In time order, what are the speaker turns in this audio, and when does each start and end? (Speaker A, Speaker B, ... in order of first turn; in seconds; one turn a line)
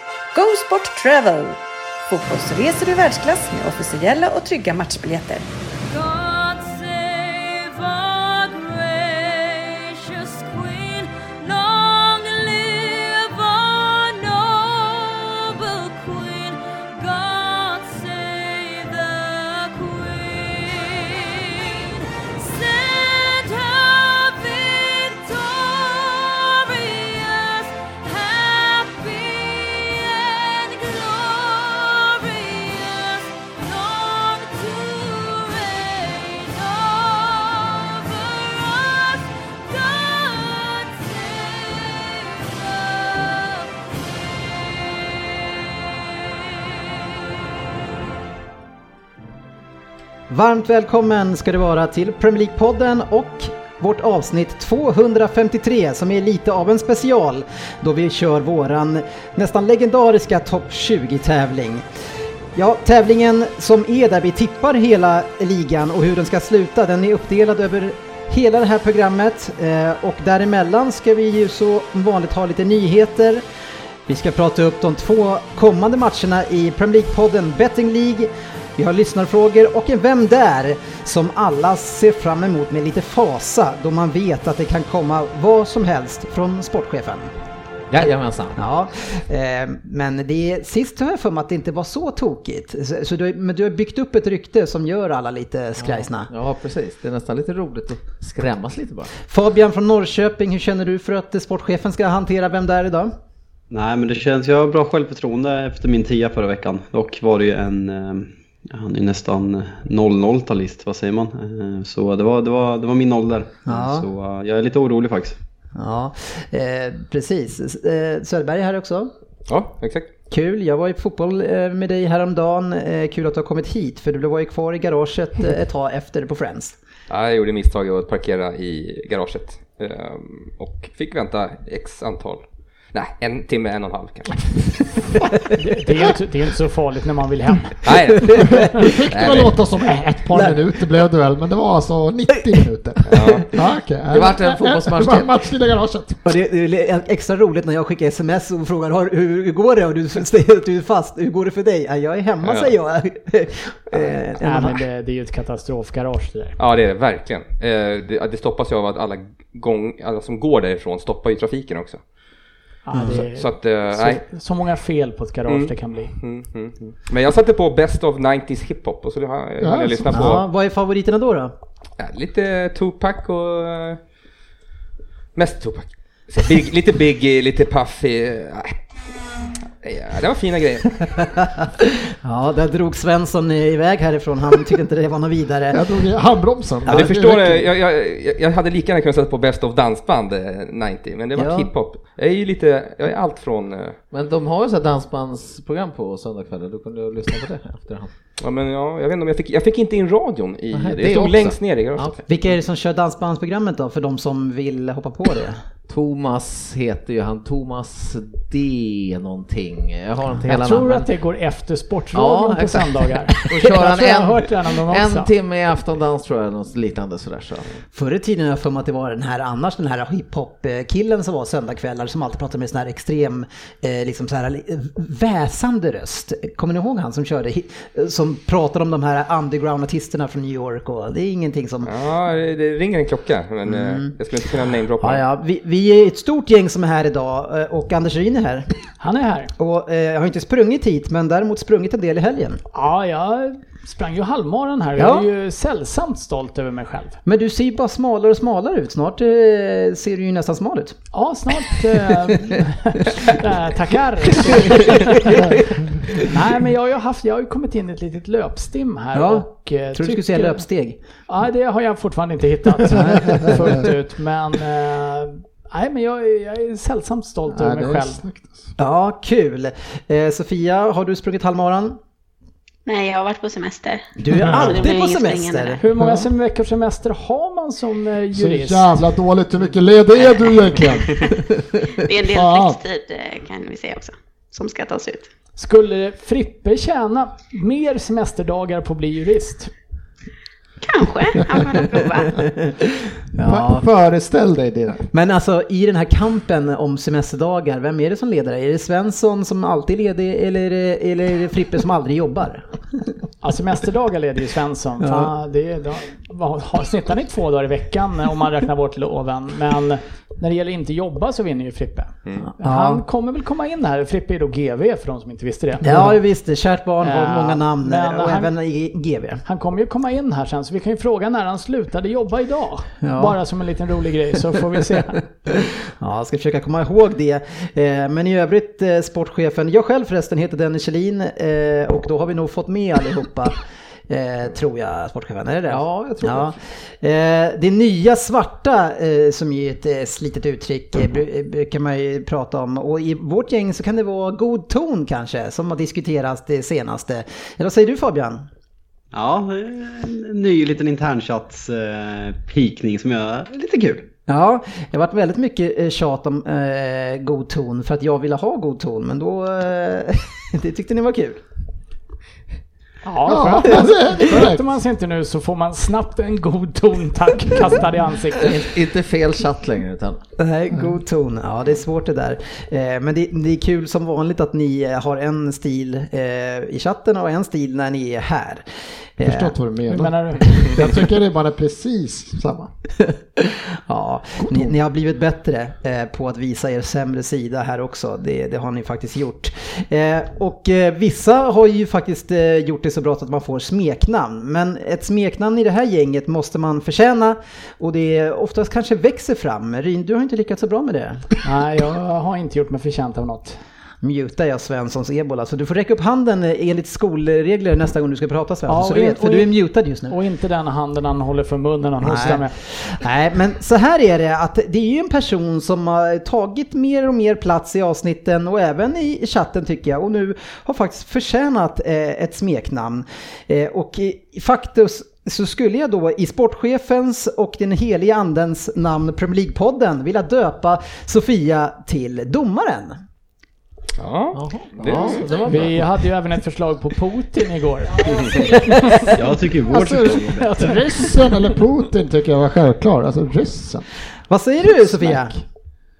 Speaker A: 0.3-5.5
Speaker B: 5.9-47.2
Speaker C: 50.3-61.8
Speaker C: 62.5-73.4
Speaker C: 74.1-87.3
Speaker D: 87.9-88.5
Speaker C: 88.5-96.3
Speaker D: 95.8-99.1
Speaker C: 99.2-103.1
Speaker E: 103.7-115.4
Speaker C: 113.7-114.0
Speaker C: 115.7-119.1
Speaker F: 119.5-120.1
Speaker C: 120.3-126.7
Speaker F: 127.1-134.7
Speaker G: 135.6-137.9
Speaker F: 137.8-138.5
Speaker C: 138.4-138.9
Speaker H: 138.5-146.2
Speaker F: 139.2-139.5
Speaker D: 139.2-139.5
Speaker F: 143.1-143.5
Speaker D: 144.1-145.3
Speaker C: 146.2-154.8
Speaker F: 152.4-152.7
Speaker G: 154.4-156.6
Speaker F: 156.6-162.0
Speaker G: 162.9-166.1
Speaker C: 162.9-163.2
Speaker F: 163.3-164.2
Speaker F: 165.5-170.4
Speaker H: 169.6-170.4
Speaker C: 170.1-171.5
Speaker F: 172.0-174.0
Speaker F: 175.3-178.8
Speaker F: 179.8-181.1
Speaker C: 182.2-185.8
Speaker H: 185.7-187.7
Speaker F: 186.9-194.0
Speaker C: 186.9-187.2
Speaker C: 191.4-191.7
Speaker D: 194.1-198.1
Speaker F: 198.4-202.1
Speaker D: 200.7-202.2
Speaker C: 202.3-205.6
Speaker D: 205.9-211.1
Speaker G: 210.5-215.3
Speaker D: 212.1-217.7
Speaker C: 217.9-231.9
Speaker F: 231.8-235.2
Speaker C: 233.7-234.1
Speaker C: 235.0-238.7
Speaker G: 239.0-239.5
Speaker C: 239.6-242.6
Speaker G: 242.7-247.2
Speaker C: 245.0-245.3
Speaker C: 247.2-250.9
Speaker G: 251.1-255.6
Speaker G: 256.1-260.6
Speaker C: 259.1-261.0
Speaker G: 261.3-268.2
Speaker C: 262.9-263.8
Speaker H: 267.5-268.7
Speaker C: 268.8-272.0
Speaker I: 272.9-275.8
Speaker C: 274.2-275.8
Speaker G: 275.8-279.0
Speaker H: 276.0-276.3
Speaker H: 278.3-281.5
Speaker I: 282.0-285.3
Speaker H: 282.2-282.8
Speaker G: 285.6-289.7
Speaker I: 290.8-292.4
Speaker C: 293.4-293.9
Speaker H: 293.4-295.1
Speaker C: 295.1-302.6
Speaker G: 303.4-316.1
Speaker C: 305.0-305.3
Speaker C: 312.4-313.0
Speaker C: 315.8-319.4
Speaker G: 317.0-318.5
Speaker G: 319.4-325.2
Speaker C: 323.0-323.4
Speaker C: 325.5-333.6
Speaker C: 334.1-348.4
Speaker D: 335.7-336.6
Speaker E: 349.1-354.1
Speaker C: 354.3-361.4
Speaker G: 363.0-368.5
Speaker H: 363.2-364.6
Speaker D: 368.4-370.2
Speaker C: 370.4-378.6
Speaker C: 379.2-379.5
Speaker H: 379.2-382.7
Speaker G: 379.9-380.8
Speaker C: 383.4-401.2
Speaker H: 384.4-384.8
Speaker G: 401.4-403.6
Speaker C: 404.0-410.2
Speaker G: 408.7-409.5
Speaker G: 410.1-412.5
Speaker C: 412.0-433.0
Speaker F: 434.0-435.2
Speaker D: 434.3-435.9
Speaker H: 434.9-435.2
Speaker G: 435.5-439.0
Speaker C: 438.4-438.9
Speaker E: 439.1-440.7
Speaker H: 439.7-443.9
Speaker G: 440.4-441.2
Speaker C: 444.3-445.3
Speaker H: 444.6-445.3